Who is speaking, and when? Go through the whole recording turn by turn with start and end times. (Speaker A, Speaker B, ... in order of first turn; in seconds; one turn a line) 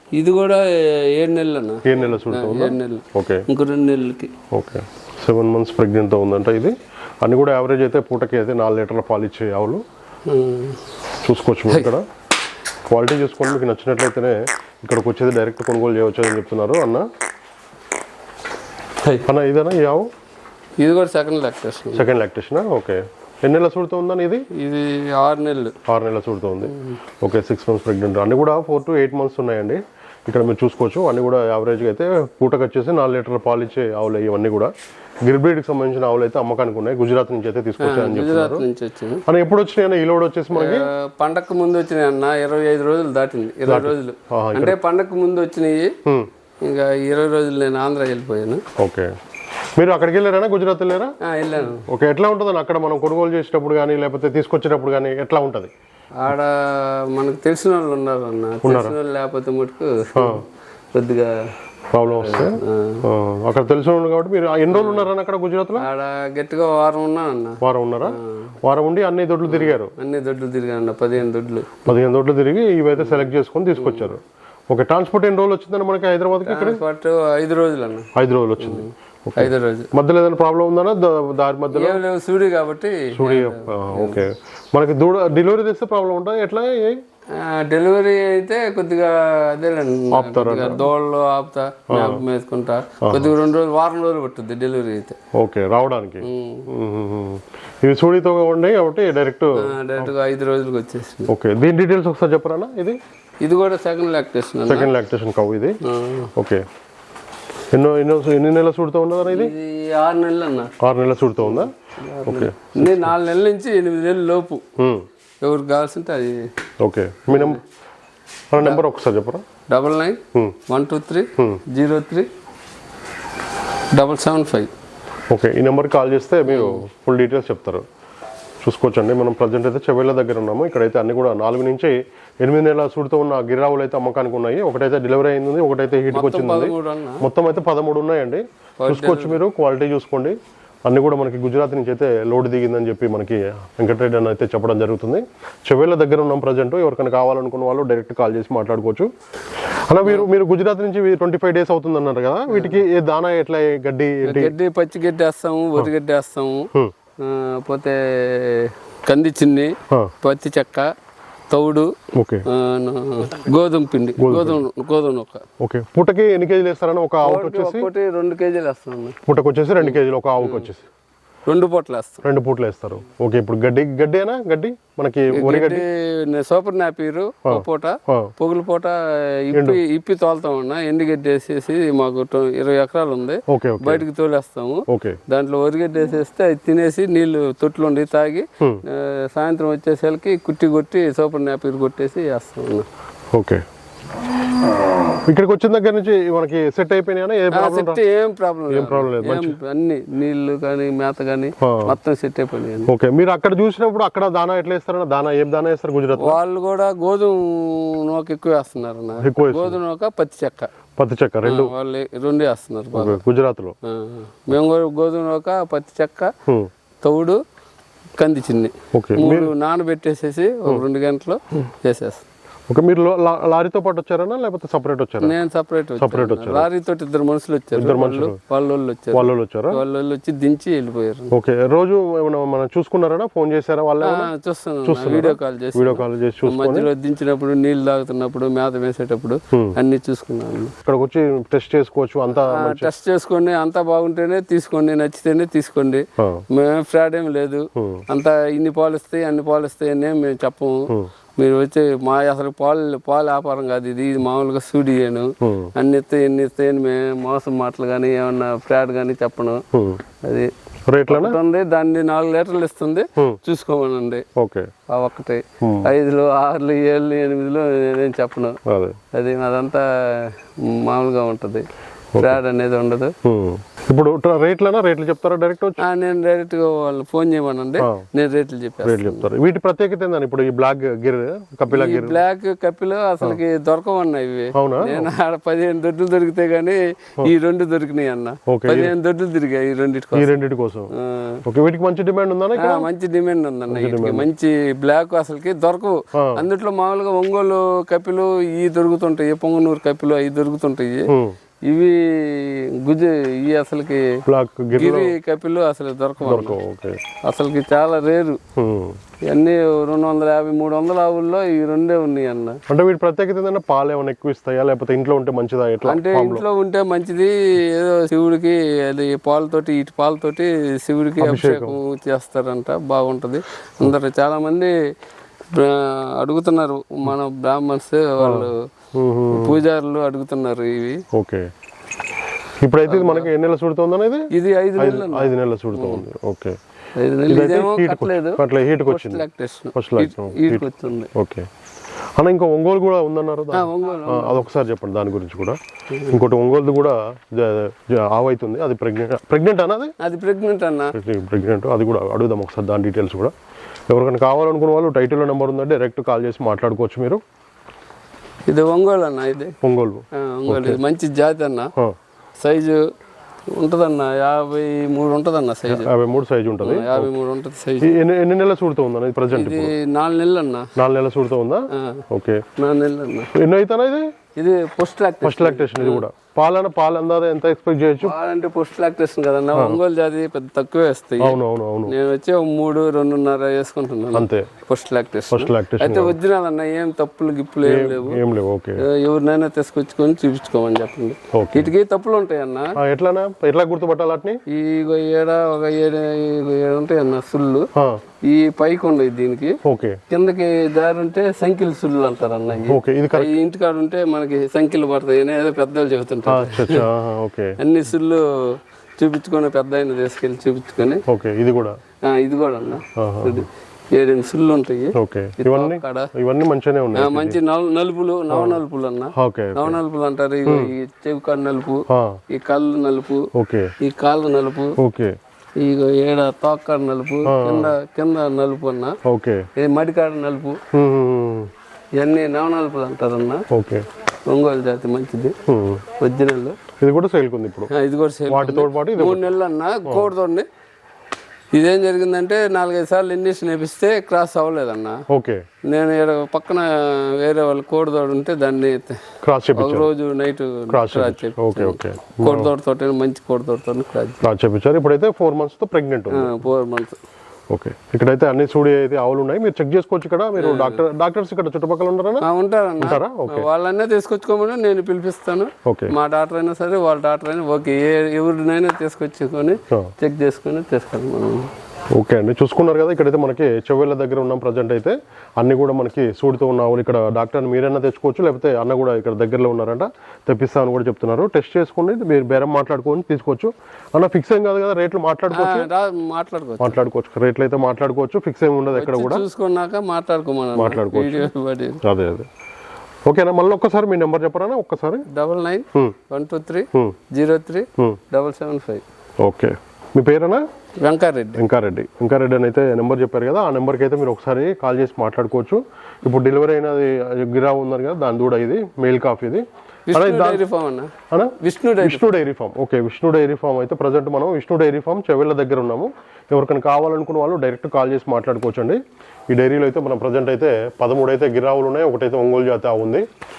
Speaker A: 0.1-4.3
Speaker B: 1.8-3.4
Speaker B: 4.5-9.8
Speaker A: 10.3-10.8
Speaker B: 11.2-12.0
Speaker B: 12.9-17.1
Speaker B: 19.2-20.1
Speaker A: 20.8-22.1
Speaker B: 21.9-24.4
Speaker A: 24.5-25.8
Speaker B: 25.9-34.7
Speaker B: 35.2-38.6
Speaker A: 37.8-39.2
Speaker B: 39.2-40.9
Speaker A: 40.5-46.0
Speaker B: 43.6-44.8
Speaker A: 46.6-48.6
Speaker B: 48.8-49.1
Speaker B: 49.8-51.1
Speaker A: 51.2-51.8
Speaker B: 51.9-55.7
Speaker A: 56.2-61.4
Speaker B: 58.6-59.0
Speaker B: 60.1-60.4
Speaker B: 61.9-65.8
Speaker A: 62.1-63.0
Speaker A: 64.7-65.1
Speaker A: 65.8-68.5
Speaker B: 67.6-69.9
Speaker A: 69.5-71.9
Speaker B: 71.8-74.2
Speaker A: 73.8-74.1
Speaker B: 74.7-76.8
Speaker A: 76.4-78.1
Speaker B: 78.1-82.0
Speaker A: 78.6-79.9
Speaker A: 81.7-84.2
Speaker B: 83.1-87.0
Speaker A: 87.3-95.2
Speaker B: 90.1-90.9
Speaker B: 91.9-92.2
Speaker B: 93.0-93.3
Speaker B: 95.3-100.1
Speaker A: 96.2-96.7
Speaker A: 99.5-101.3
Speaker B: 101.3-103.0
Speaker A: 103.4-104.9
Speaker B: 104.7-105.8
Speaker A: 105.8-106.3
Speaker B: 106.3-106.6
Speaker B: 107.7-109.5
Speaker A: 109.2-110.7
Speaker B: 110.8-111.7
Speaker A: 111.4-114.6
Speaker B: 112.2-113.1
Speaker B: 114.8-115.0
Speaker A: 115.4-116.5
Speaker B: 116.8-117.6
Speaker A: 117.3-117.6
Speaker B: 118.5-119.4
Speaker A: 119.7-122.3
Speaker A: 123.9-124.7
Speaker B: 125.3-127.8
Speaker A: 126.5-126.8
Speaker B: 128.6-149.1
Speaker A: 136.1-137.2
Speaker A: 138.8-139.4
Speaker B: 149.9-154.5
Speaker A: 152.5-152.8
Speaker A: 154.2-156.7
Speaker A: 157.2-160.9
Speaker A: 161.5-161.9
Speaker B: 162.1-162.4
Speaker A: 162.5-165.4
Speaker B: 164.2-164.6
Speaker B: 165.6-167.9
Speaker A: 167.2-169.2
Speaker B: 169.3-170.8
Speaker A: 169.8-170.7
Speaker A: 171.4-172.2
Speaker B: 172.2-175.8
Speaker A: 175.3-192.9
Speaker B: 177.4-178.3
Speaker B: 179.5-179.8
Speaker B: 183.5-184.0
Speaker B: 184.9-185.2
Speaker B: 193.3-193.6
Speaker B: 195.3-198.0
Speaker A: 197.5-202.9
Speaker B: 198.7-199.6
Speaker B: 201.6-201.9
Speaker B: 202.9-206.4
Speaker A: 206.2-210.7
Speaker B: 209.2-209.8
Speaker B: 211.0-211.7
Speaker A: 211.4-213.2
Speaker B: 212.9-213.7
Speaker A: 213.8-216.3
Speaker A: 217.0-217.4
Speaker A: 218.2-222.2
Speaker B: 218.9-219.5
Speaker B: 222.7-225.3
Speaker A: 225.2-231.3
Speaker B: 226.0-226.7
Speaker B: 227.7-228.4
Speaker B: 229.1-229.8
Speaker B: 231.3-234.3
Speaker A: 234.0-240.7
Speaker B: 234.8-236.9
Speaker B: 240.8-242.9
Speaker A: 242.5-259.6
Speaker B: 247.8-248.0
Speaker B: 255.4-255.7
Speaker B: 259.7-260.0
Speaker A: 260.2-260.5
Speaker B: 260.9-261.4
Speaker A: 261.1-264.2
Speaker B: 264.4-264.7
Speaker A: 264.9-268.6
Speaker B: 265.6-265.9
Speaker B: 268.6-269.0
Speaker A: 269.1-273.1
Speaker B: 272.1-272.4
Speaker B: 273.2-275.8
Speaker A: 275.8-279.2
Speaker B: 277.8-278.1
Speaker B: 278.8-282.2
Speaker A: 281.7-290.3
Speaker B: 284.6-285.1
Speaker B: 288.5-288.9
Speaker B: 290.1-290.9
Speaker A: 290.9-291.4
Speaker B: 291.4-292.9
Speaker A: 292.6-301.1
Speaker B: 293.7-294.3
Speaker B: 296.1-296.4
Speaker B: 301.1-301.4
Speaker A: 301.6-304.2
Speaker B: 304.3-305.1
Speaker A: 304.7-306.6
Speaker B: 306.2-307.0
Speaker A: 307.2-308.4
Speaker B: 308.6-309.0
Speaker A: 309.2-312.6
Speaker B: 312.7-316.4
Speaker A: 315.8-324.7
Speaker B: 321.2-321.8
Speaker A: 325.5-328.7
Speaker B: 328.2-329.6
Speaker A: 329.3-331.0
Speaker B: 331.1-331.5
Speaker B: 332.6-336.6
Speaker A: 332.9-333.3
Speaker A: 334.3-336.0
Speaker A: 337.0-341.1
Speaker B: 337.3-341.5
Speaker B: 342.2-349.9
Speaker A: 343.5-344.4
Speaker A: 350.0-350.9
Speaker B: 350.9-353.3
Speaker B: 353.9-357.2
Speaker A: 358.5-359.5
Speaker B: 359.6-360.8
Speaker A: 360.1-361.7
Speaker A: 362.4-362.9
Speaker A: 363.5-365.9
Speaker B: 365.7-367.1
Speaker A: 366.6-368.0
Speaker B: 367.8-369.7
Speaker A: 369.3-370.7
Speaker B: 370.8-372.4
Speaker A: 371.7-372.0
Speaker A: 372.6-373.3
Speaker B: 373.3-374.1
Speaker A: 374.4-376.0
Speaker B: 375.2-378.1
Speaker A: 378.0-388.2
Speaker B: 379.5-379.8
Speaker B: 381.2-381.9
Speaker B: 384.1-384.5
Speaker B: 385.3-386.2
Speaker B: 387.6-388.8
Speaker A: 388.8-392.8
Speaker B: 391.3-391.7
Speaker B: 392.8-394.4
Speaker A: 394.5-397.7
Speaker B: 397.7-398.0
Speaker A: 398.2-399.6
Speaker B: 399.6-400.0
Speaker A: 400.1-406.9
Speaker B: 402.7-403.3
Speaker B: 406.3-407.6
Speaker A: 407.6-411.0
Speaker B: 411.1-411.8
Speaker A: 412.0-416.1
Speaker B: 413.0-413.4
Speaker B: 414.9-417.4
Speaker A: 416.9-423.3
Speaker B: 418.3-418.6
Speaker B: 419.1-419.8
Speaker B: 420.4-420.7
Speaker B: 421.9-422.2
Speaker B: 423.3-423.7
Speaker A: 423.8-424.8
Speaker B: 424.8-425.1
Speaker A: 425.6-429.0
Speaker B: 427.3-427.7
Speaker B: 429.1-429.5
Speaker A: 429.6-430.6
Speaker B: 430.7-431.5
Speaker A: 431.9-433.4
Speaker B: 433.5-433.8
Speaker A: 434.3-435.3
Speaker B: 435.5-435.8
Speaker A: 436.0-436.6
Speaker B: 436.8-437.7
Speaker A: 437.7-440.4
Speaker B: 438.3-439.2
Speaker B: 439.9-440.1
Speaker A: 441.5-445.0
Speaker B: 445.1-445.4
Speaker A: 445.6-449.0
Speaker B: 449.2-449.9
Speaker A: 449.6-454.2
Speaker B: 450.7-452.5
Speaker B: 454.2-456.3
Speaker A: 456.1-457.0
Speaker B: 457.5-462.2
Speaker A: 460.4-460.8
Speaker A: 462.2-471.5
Speaker B: 462.8-463.5
Speaker B: 465.6-465.9
Speaker B: 471.9-485.7
Speaker A: 485.3-486.8
Speaker B: 486.6-489.2
Speaker A: 488.7-491.8
Speaker B: 490.6-491.3
Speaker B: 491.8-492.3
Speaker B: 493.1-495.0
Speaker A: 495.1-498.8
Speaker B: 499.2-500.4
Speaker A: 500.8-501.4
Speaker B: 501.4-510.4
Speaker A: 509.9-512.0
Speaker B: 511.1-518.8
Speaker B: 519.3-523.0